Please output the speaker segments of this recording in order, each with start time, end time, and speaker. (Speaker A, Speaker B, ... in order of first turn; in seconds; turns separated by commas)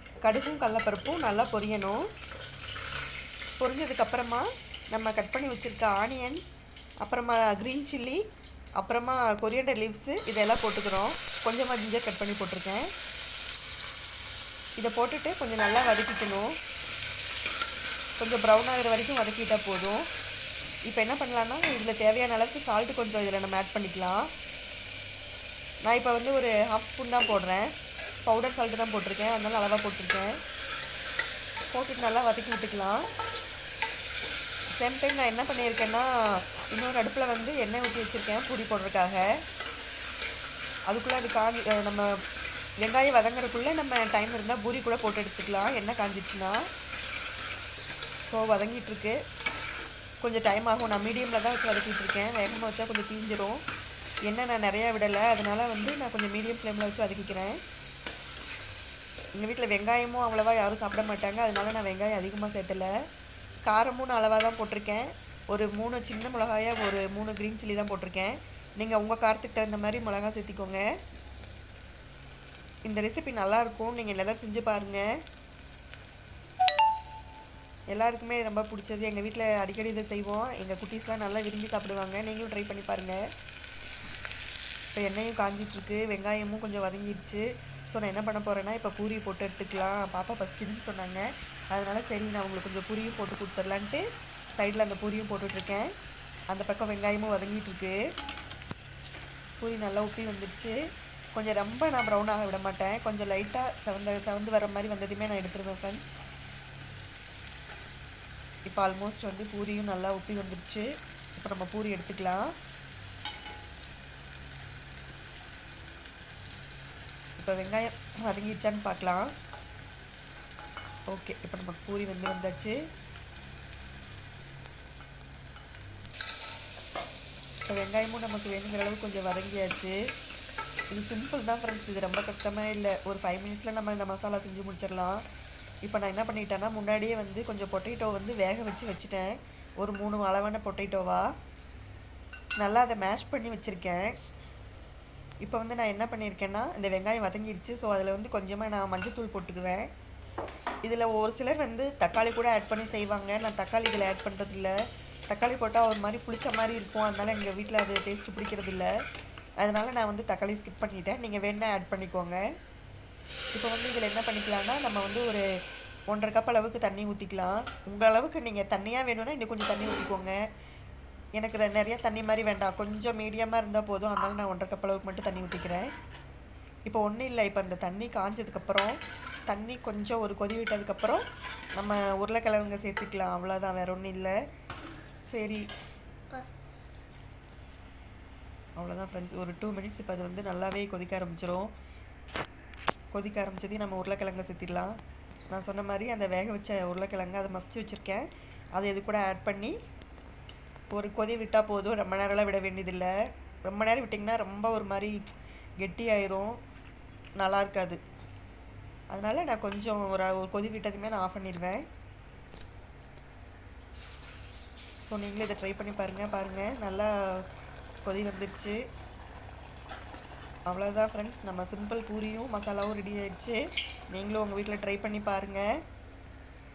Speaker A: 0.2-2.0, Speaker A: 3.6-6.4, Speaker A: 7.0-8.2, Speaker A: 8.8-12.9, Speaker A: 14.8-16.5, Speaker A: 18.2-20.1, Speaker A: 20.9-24.3, Speaker A: 25.9-27.7, Speaker A: 28.2-30.4, Speaker A: 31.7-33.1, Speaker A: 34.8-39.2, Speaker A: 40.9-42.1, Speaker A: 42.8-46.6, Speaker A: 48.3-49.2, Speaker A: 50.2-53.6, Speaker A: 54.3-57.6, Speaker A: 59.4-62.9, Speaker A: 63.7-70.8, Speaker A: 72.9-75.1, Speaker A: 77.9-83.2, Speaker A: 84.9-95.9, Speaker A: 96.5-98.0, Speaker A: 99.6-100.8, Speaker A: 101.3-106.0, Speaker A: 108.7-112.5, Speaker A: 117.4-119.3, Speaker A: 121.1-122.8, Speaker A: 127.7-130.0, Speaker A: 130.9-135.2, Speaker A: 135.8-141.3, Speaker A: 142.6-144.2, Speaker A: 145.4-149.9, Speaker A: 150.8-154.7, Speaker A: 155.3-158.9, Speaker A: 159.6-162.4, Speaker A: 163.5-165.4, Speaker A: 166.1-170.4, Speaker A: 171.4-175.9, Speaker A: 176.9-181.2, Speaker A: 181.8-184.3, Speaker A: 185.3-185.7, Speaker A: 188.8-191.7, Speaker A: 193.1-195.0, Speaker A: 195.5-199.8, Speaker A: 200.9-203.1, Speaker A: 203.7-205.3, Speaker A: 205.8-206.6, Speaker A: 207.4-208.0, Speaker A: 209.1-211.9, Speaker A: 215.1-217.5, Speaker A: 218.1-218.8, Speaker A: 220.7-225.6